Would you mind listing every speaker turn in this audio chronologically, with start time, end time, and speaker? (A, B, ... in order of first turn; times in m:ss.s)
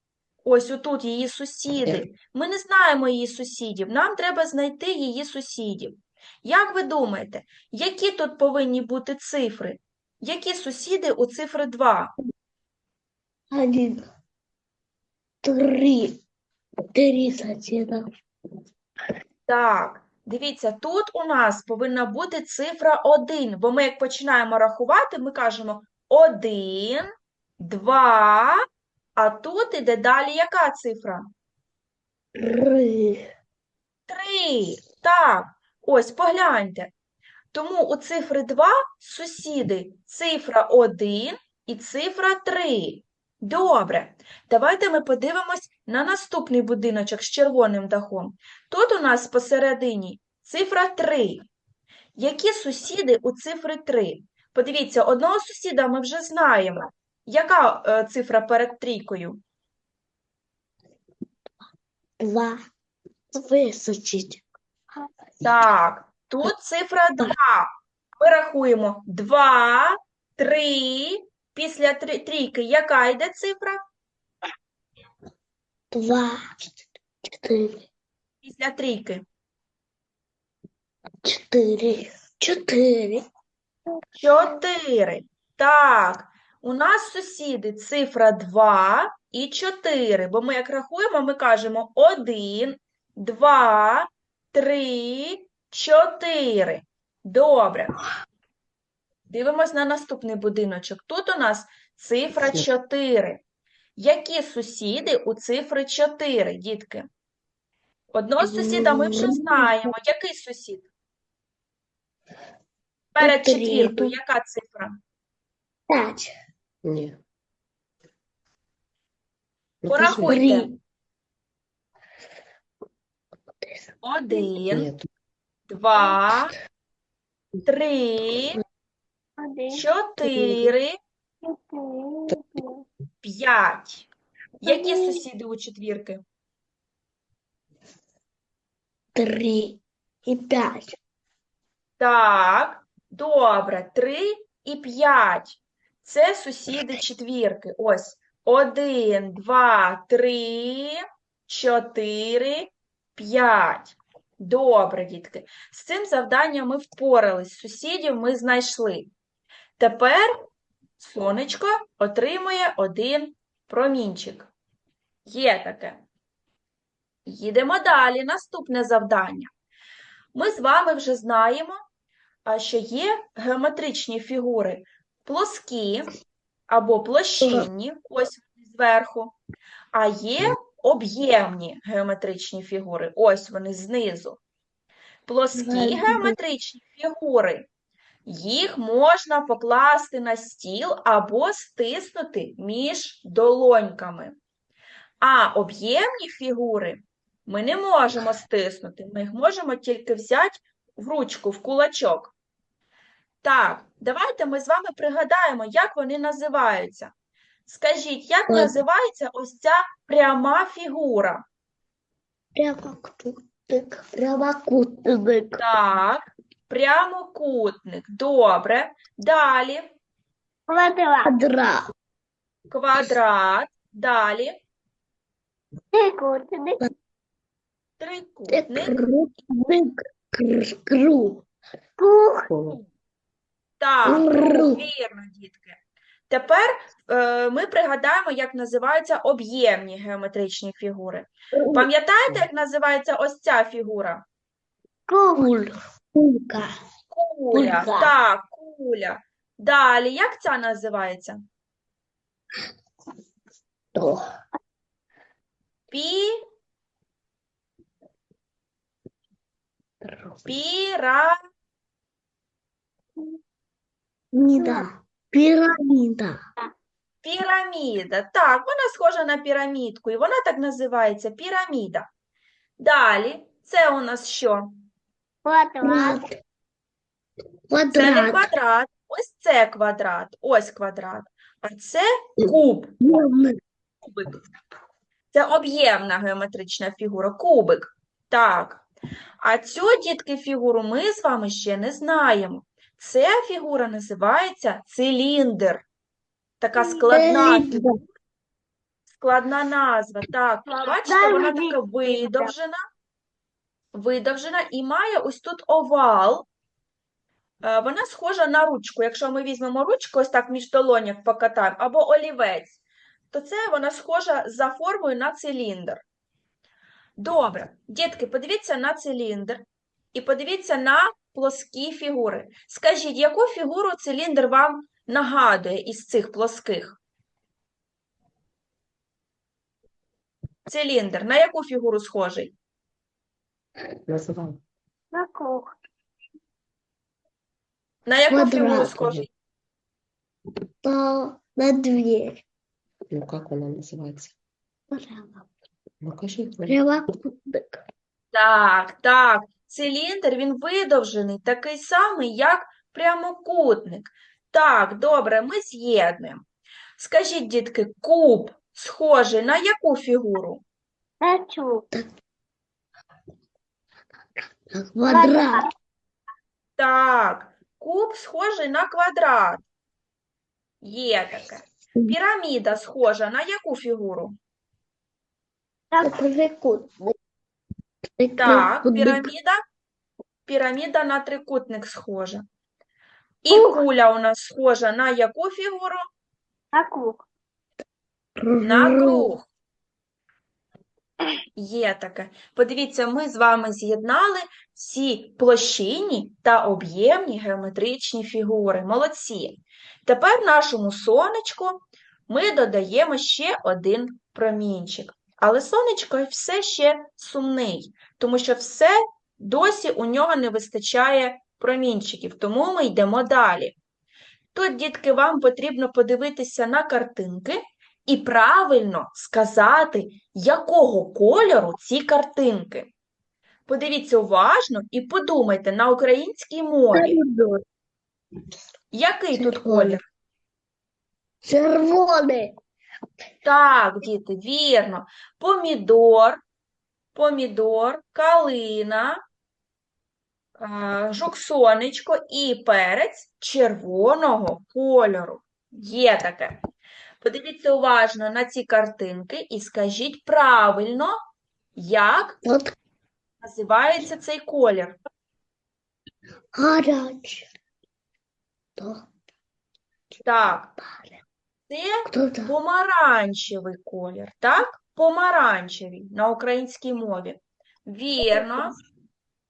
0:00.4-0:12.1 A
0:13.5-0:14.0 B
0:15.4-0:16.2 B
0:16.9-0:18.0 B
0:19.5-0:27.1 A
0:27.6-0:28.6 A
0:29.2-0:31.3 A
0:32.4-0:33.2 B
0:34.1-0:36.9 A
0:37.5-0:51.4 A
0:52.2-0:59.4 A
1:02.2-1:02.6 B
1:03.3-1:04.4 B
1:05.4-1:13.8 A
1:15.9-1:16.8 B
1:17.3-1:17.8 B
1:18.4-1:19.2 A
1:21.2-1:23.2 B
1:24.2-1:38.0 A
1:39.3-1:43.4 A
1:42.4-1:42.7 C
1:44.0-1:47.1 A
1:48.1-1:50.8 A
1:48.4-1:49.7 B
1:53.1-1:55.0 A
1:53.2-1:54.1 B
1:55.9-1:56.3 B
1:56.8-1:57.2 C
1:59.8-2:00.4 C
1:59.9-2:00.7 A
2:00.1-2:00.7 B
2:03.6-2:03.9 B
2:04.0-2:04.9 A
2:04.7-2:05.1 C
2:05.7-2:06.5 A
2:07.6-2:08.6 A
2:09.4-2:09.8 D
2:09.7-2:10.9 A
2:10.2-2:10.7 B
2:11.4-2:12.8 D
2:13.2-2:14.1 A
2:14.6-2:16.2 A
2:14.6-2:15.2 D
2:19.1-2:21.0 B
2:22.0-2:39.1 A
2:39.8-2:40.3 A
2:41.0-2:44.5 A
2:45.2-2:46.0 A
2:47.2-2:49.5 A
2:50.3-2:51.8 A
2:52.5-2:56.1 A
2:56.7-2:59.4 A
2:57.4-2:57.7 B
2:59.9-3:04.4 A
3:05.2-3:07.7 A
3:05.5-3:06.4 B
3:08.2-3:14.3 A
3:15.2-3:22.3 A
3:23.4-3:27.1 A
3:27.7-3:31.4 A
3:28.5-3:28.7 B
3:32.5-3:35.6 B
3:35.6-3:39.8 A
3:40.7-3:41.3 D
3:41.2-3:41.8 B
3:42.7-3:44.6 A
3:45.9-3:46.8 D
3:48.0-3:49.0 A
3:48.5-3:51.4 B
3:52.0-3:52.5 D
3:52.5-3:52.8 C
3:53.8-3:55.8 A
3:54.0-3:54.8 B
3:56.3-4:04.2 A
4:01.5-4:01.9 B
4:05.1-4:06.7 B
4:07.1-4:11.4 A
4:07.5-4:08.1 B
4:13.9-4:14.2 B
4:15.9-4:16.3 A
4:20.0-4:20.6 B
4:20.4-4:21.3 A
4:24.3-4:26.4 B
4:24.6-4:24.9 D
4:27.2-4:32.1 A
4:32.8-4:34.7 A
4:35.4-4:36.2 D
4:35.8-4:36.3 B
4:37.7-4:38.5 B
4:37.9-4:42.9 A
4:42.4-4:43.5 B
4:44.0-4:44.4 A
4:45.3-4:48.8 A
4:49.4-4:55.8 A
4:56.6-4:57.8 A
4:56.8-4:57.0 D
4:57.1-4:58.0 B
4:59.1-5:02.8 A
5:00.7-5:02.5 D
5:03.9-5:06.5 A
5:07.6-5:12.8 A
5:13.3-5:16.0 A
5:17.2-5:27.0 A
5:30.7-5:32.5 A
5:34.1-5:34.6 C
5:35.1-5:35.7 D
5:38.0-5:39.3 A
5:38.3-5:39.0 B
5:40.8-5:42.4 B
5:43.1-5:44.3 C
5:44.9-5:45.5 B
5:46.0-5:46.8 C
5:46.7-5:47.8 B
5:48.3-5:56.4 A
5:57.0-6:00.6 A
6:01.2-6:01.8 D
6:04.7-6:05.6 B
6:05.1-6:05.7 D
6:06.8-6:09.6 A
6:10.8-6:14.3 A
6:16.0-6:17.1 B
6:18.2-6:19.3 B
6:18.4-6:19.6 A
6:20.4-6:22.4 A
6:23.4-6:26.0 A
6:23.5-6:23.8 D
6:26.7-6:27.2 D
6:28.4-6:29.3 B
6:28.6-6:29.4 A
6:31.6-6:53.8 A
6:54.5-7:02.9 A
7:03.7-7:07.2 A
7:06.9-7:07.6 B
7:08.9-7:10.0 A
7:09.3-7:10.0 B
7:11.4-7:12.5 B
7:13.4-7:16.4 A
7:17.1-7:19.2 A
7:20.6-7:26.6 A
7:27.2-7:31.1 A
7:31.8-7:32.4 A
7:32.4-7:32.8 B
7:33.4-7:35.0 A
7:36.5-7:37.5 B
7:38.8-7:39.1 B
7:40.2-7:40.7 A
7:40.8-7:41.2 B
7:41.7-7:48.7 A
7:42.0-7:42.5 B
7:48.3-7:48.6 B